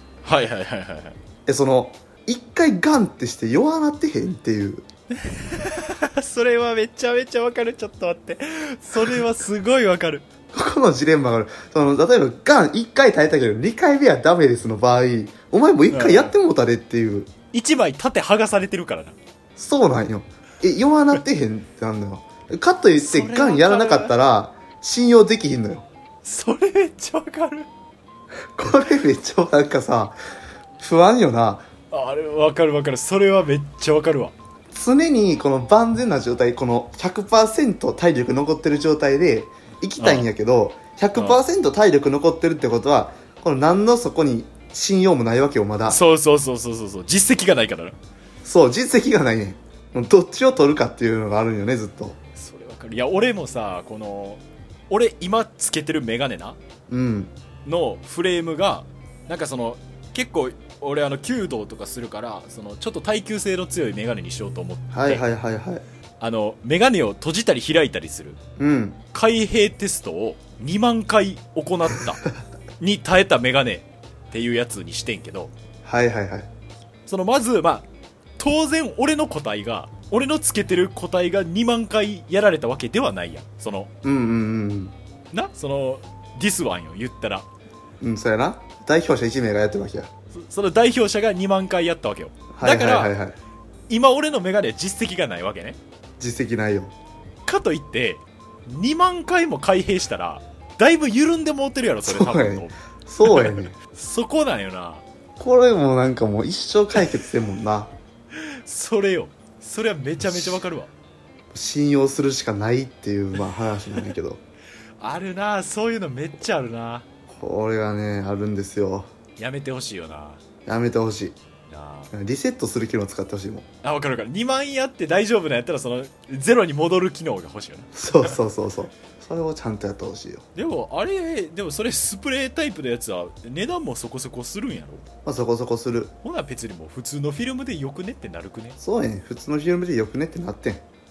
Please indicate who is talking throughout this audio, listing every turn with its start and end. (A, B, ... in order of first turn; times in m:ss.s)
0:00.2-0:01.2 A
0:01.5-0:04.9 B
0:05.2-0:10.2 A
0:10.5-0:17.3 B
0:15.9-0:16.3 A
0:17.5-0:19.2 A
0:19.6-0:25.9 B
0:23.0-0:24.2 A
0:26.2-0:27.7 A
0:28.6-0:30.2 B
0:30.8-0:31.7 B
0:31.9-0:34.3 A
0:34.7-0:46.0 B
0:40.0-0:40.3 A
0:41.2-0:41.4 A
0:45.9-0:48.0 A
0:48.4-0:52.2 B
0:52.4-0:56.6 A
0:56.9-0:57.3 B
0:57.6-1:05.3 A
1:04.9-1:05.8 B
1:06.2-1:08.4 A
1:08.6-1:09.0 B
1:09.1-1:12.3 A
1:12.8-1:15.5 A
1:15.8-1:16.5 B
1:17.1-1:17.9 A
1:18.4-1:23.9 A
1:24.0-1:25.0 B
1:25.3-1:27.5 A
1:28.0-1:30.1 B
1:30.3-1:33.1 A
1:32.5-1:33.4 B
1:33.9-1:35.8 A
1:36.2-1:36.9 B
1:37.5-1:45.0 A
1:42.0-1:43.8 B
1:45.4-1:47.9 B
1:48.4-1:50.9 A
1:51.5-1:54.4 B
1:55.0-1:57.1 A
1:57.3-1:59.1 B
1:59.4-2:00.4 A
2:00.7-2:01.4 B
2:01.7-2:02.1 A
2:02.1-2:03.7 B
2:03.8-2:08.4 A
2:08.0-2:10.5 B
2:10.6-2:15.1 A
2:15.2-2:16.1 B
2:16.2-2:18.8 A
2:18.8-2:20.8 B